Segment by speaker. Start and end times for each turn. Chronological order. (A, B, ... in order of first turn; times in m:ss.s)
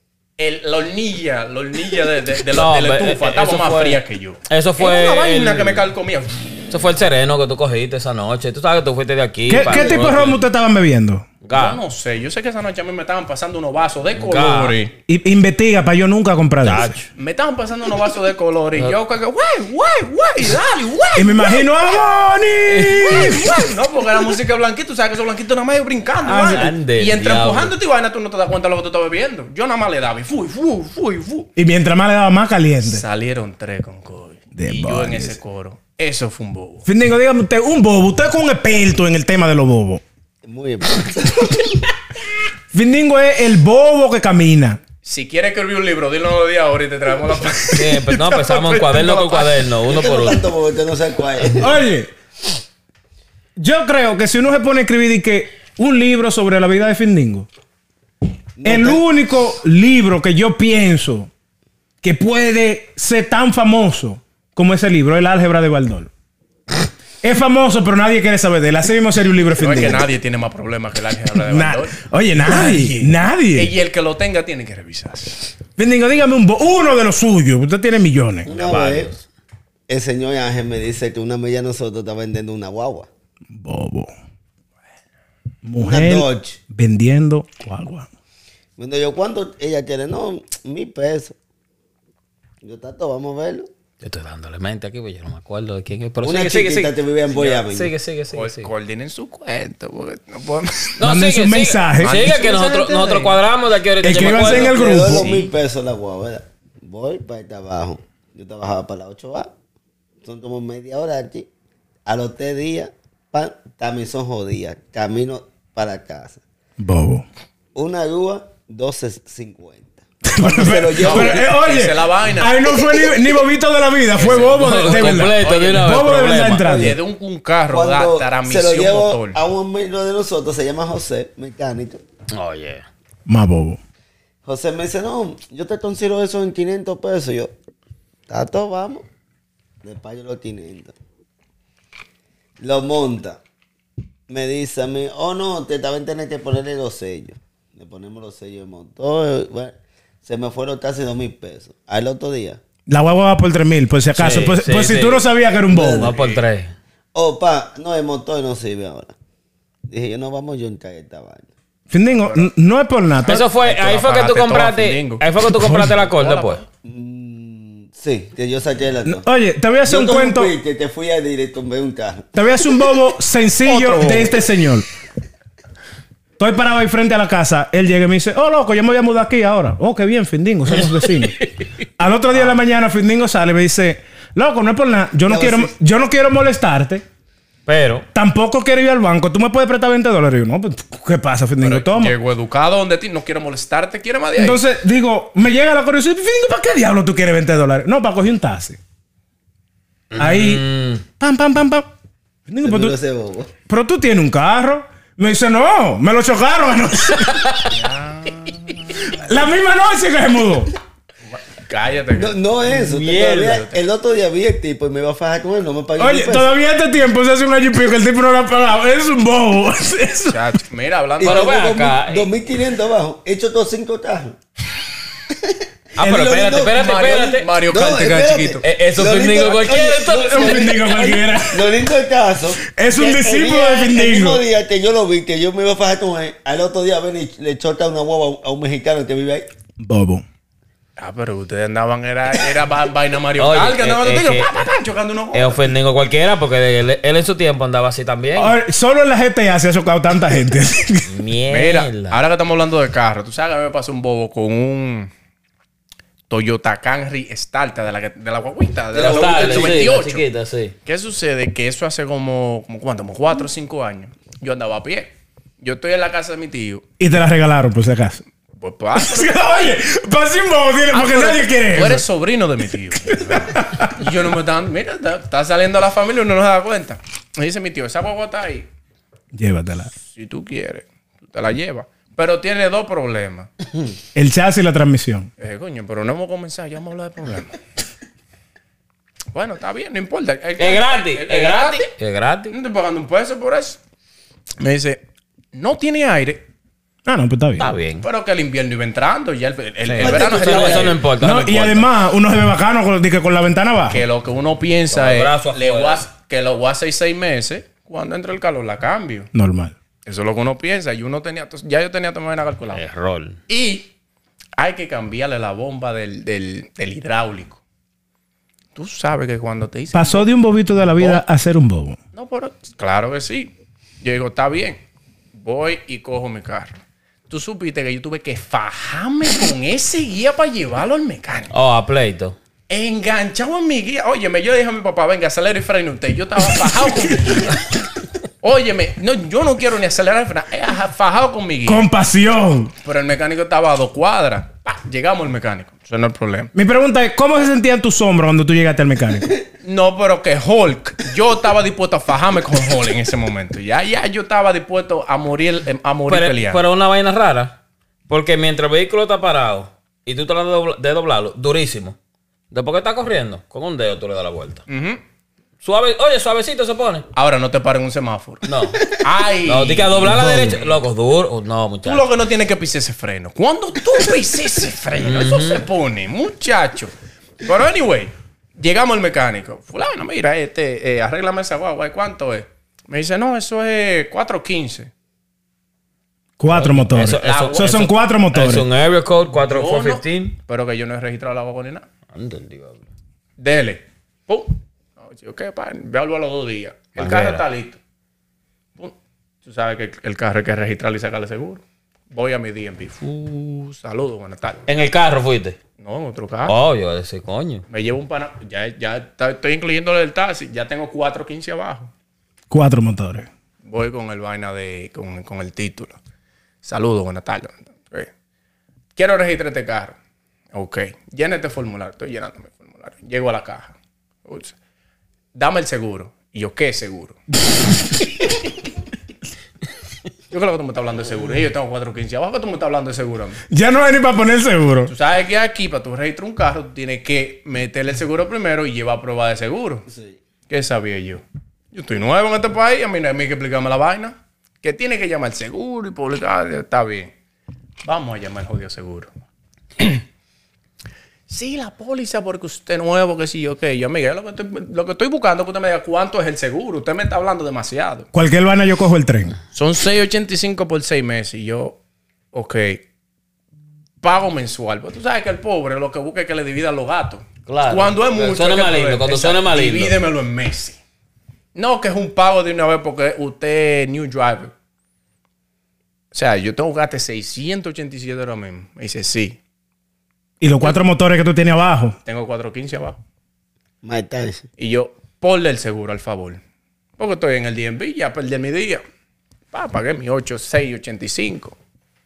0:00.4-0:06.4 A
0:02.5-0:05.9 B
0:06.7-0:10.4 B
0:09.5-0:11.3 C
0:09.6-0:10.0 A
0:11.4-0:11.8 B
0:11.5-0:14.9 A
0:14.2-0:14.8 B
0:15.1-0:17.0 C
0:16.6-0:17.1 B
0:17.2-0:21.6 A
0:21.2-0:23.4 C
0:22.7-0:23.4 B
0:23.0-0:31.5 A
0:26.2-0:26.7 C
0:26.4-0:27.7 B
0:31.6-0:33.0 C
0:32.8-0:36.9 A
0:34.6-0:35.4 C
0:36.9-0:40.0 C
0:40.4-0:41.9 D
0:42.7-0:44.8 C
0:45.0-0:49.6 A
0:47.7-0:50.5 B
0:49.8-0:51.8 D
0:51.5-0:52.1 C
0:53.6-0:57.5 C
0:58.6-0:59.0 D
0:58.6-1:01.3 C
1:02.0-1:06.1 C
1:07.2-1:10.1 C
1:09.6-1:15.5 A
1:11.4-1:13.7 C
1:15.8-1:18.5 C
1:18.4-1:19.1 D
1:18.5-1:19.2 B
1:19.9-1:23.1 D
1:23.5-1:24.1 C
1:25.6-1:28.1 C
1:25.8-1:26.6 D
1:28.8-1:31.4 D
1:32.6-1:33.7 D
1:34.0-1:38.7 B
1:36.2-1:37.9 D
1:38.3-1:41.0 A
1:41.0-1:44.8 B
1:41.0-1:42.2 C
1:42.0-1:43.4 A
1:44.0-1:45.3 C
1:44.3-1:49.5 D
1:45.0-1:45.5 A
1:50.2-1:51.5 D
1:52.1-1:56.4 D
1:56.8-1:57.2 C
1:57.8-2:01.5 D
2:00.3-2:07.0 C
2:01.0-2:02.8 A
2:04.2-2:06.0 A
2:04.2-2:07.0 B
2:06.6-2:09.4 A
2:07.7-2:12.0 D
2:12.3-2:12.9 B
2:13.3-2:13.8 C
2:14.4-2:17.5 D
2:18.3-2:19.1 D
2:19.8-2:21.0 D
2:22.6-2:23.4 D
2:24.3-2:32.6 D
2:32.9-2:36.1 C
2:34.2-2:35.3 B
2:35.7-2:36.1 D
2:35.9-2:36.7 B
2:36.1-2:36.4 A
2:37.1-2:39.1 D
2:39.9-2:41.5 D
2:41.9-2:43.4 C
2:42.1-2:42.5 A
2:43.3-2:46.6 B
2:43.3-2:45.2 A
2:45.6-2:46.0 C
2:45.8-2:46.6 A
2:46.8-2:49.3 D
2:49.0-2:50.5 C
2:49.9-2:52.8 D
2:52.3-2:54.9 C
2:53.6-2:54.4 A
2:56.4-3:01.4 C
3:02.0-3:07.0 C
3:02.3-3:02.6 A
3:05.3-3:05.7 D
3:07.7-3:08.1 B
3:08.1-3:12.2 C
3:11.6-3:14.6 A
3:14.4-3:18.8 C
3:20.1-3:21.0 B
3:20.2-3:20.7 C
3:21.2-3:21.9 C
3:22.5-3:23.0 C
3:22.6-3:23.5 D
3:23.7-3:27.5 C
3:27.6-3:29.2 A
3:29.1-3:30.8 C
3:31.3-3:32.4 A
3:32.2-3:36.5 D
3:32.7-3:33.6 B
3:33.4-3:33.8 A
3:36.0-3:40.6 C
3:40.3-3:41.6 A
3:41.2-3:44.4 D
3:41.2-3:42.3 B
3:45.3-3:59.5 D
3:46.0-3:47.5 B
3:46.0-3:48.6 A
3:48.6-3:51.0 B
3:50.3-3:51.8 C
3:52.6-3:54.4 C
3:59.8-4:00.2 C
4:01.0-4:05.8 A
4:03.4-4:04.5 B
4:05.3-4:08.6 B
4:08.4-4:11.1 C
4:11.1-4:12.2 B
4:11.5-4:15.1 A
4:16.3-4:20.2 A
4:18.9-4:20.8 B
4:19.0-4:19.7 D
4:20.8-4:26.8 A
4:27.0-4:28.2 C
4:28.6-4:29.8 A
4:29.0-4:32.1 C
4:30.9-4:38.7 A
4:33.1-4:34.0 C
4:39.3-4:39.9 C
4:40.0-4:43.5 A
4:44.2-4:45.3 C
4:45.4-4:47.6 A
4:49.3-4:51.9 A
4:50.6-4:52.6 B
4:52.5-4:53.8 A
4:54.6-4:55.0 A
4:55.5-4:56.5 A
4:57.1-4:57.8 C
4:57.6-4:58.1 B
4:57.9-5:01.1 A
5:00.0-5:01.0 D
5:00.0-5:01.9 B
5:01.2-5:04.0 C
5:03.9-5:09.3 A
5:04.9-5:06.1 B
5:09.3-5:09.8 C
5:10.0-5:12.8 A
5:12.7-5:13.4 B
5:13.5-5:13.9 A
5:14.6-5:17.6 A
5:18.8-5:20.3 A
5:19.9-5:22.0 C
5:21.0-5:21.2 A
5:22.1-5:24.8 A
5:25.3-5:26.8 A
5:27.3-5:31.5 A
5:31.5-5:32.4 B
5:32.7-5:37.8 A
5:38.4-5:41.9 A
5:41.7-5:42.7 C
5:42.8-5:46.5 A
5:46.5-5:49.3 C
5:49.6-5:56.6 A
5:56.1-5:57.6 B
5:58.1-6:02.0 B
6:02.5-6:04.6 B
6:04.7-6:05.0 A
6:05.6-6:07.1 B
6:07.2-6:10.7 A
6:08.4-6:12.1 B
6:10.1-6:10.5 C
6:11.8-6:24.9 A
6:15.0-6:15.7 B
6:26.4-6:28.6 C
6:26.5-6:30.4 B
6:27.1-6:27.8 A
6:29.3-6:31.9 A
6:32.1-6:32.9 B
6:33.4-6:37.8 A
6:37.0-6:37.4 B
6:38.8-6:44.6 A
6:44.7-6:45.6 B
6:45.8-6:46.6 A
6:46.5-6:47.6 B
6:47.7-6:51.9 A
6:52.5-6:53.3 C
6:53.6-6:56.0 A
6:56.6-6:58.1 A
6:59.0-7:00.0 A
7:00.5-7:04.6 A
7:05.3-7:07.2 A
7:10.3-7:13.4 A
7:13.5-7:14.9 C
7:14.9-7:19.9 A
7:19.9-7:20.2 D
7:20.5-7:27.1 A
7:27.8-7:29.1 A
7:29.8-7:30.0 A
7:31.3-7:38.1 A
7:38.1-7:39.4 C
7:39.5-7:41.8 A
7:42.3-7:42.8 A
7:44.0-7:50.8 A
7:47.5-7:50.0 B
7:51.6-7:54.5 A
7:56.1-7:59.4 A
8:00.4-8:02.0 C
8:02.1-8:03.0 A
8:03.8-8:04.5 D
8:04.6-8:06.4 A
8:07.0-8:08.8 A
8:09.5-8:11.6 A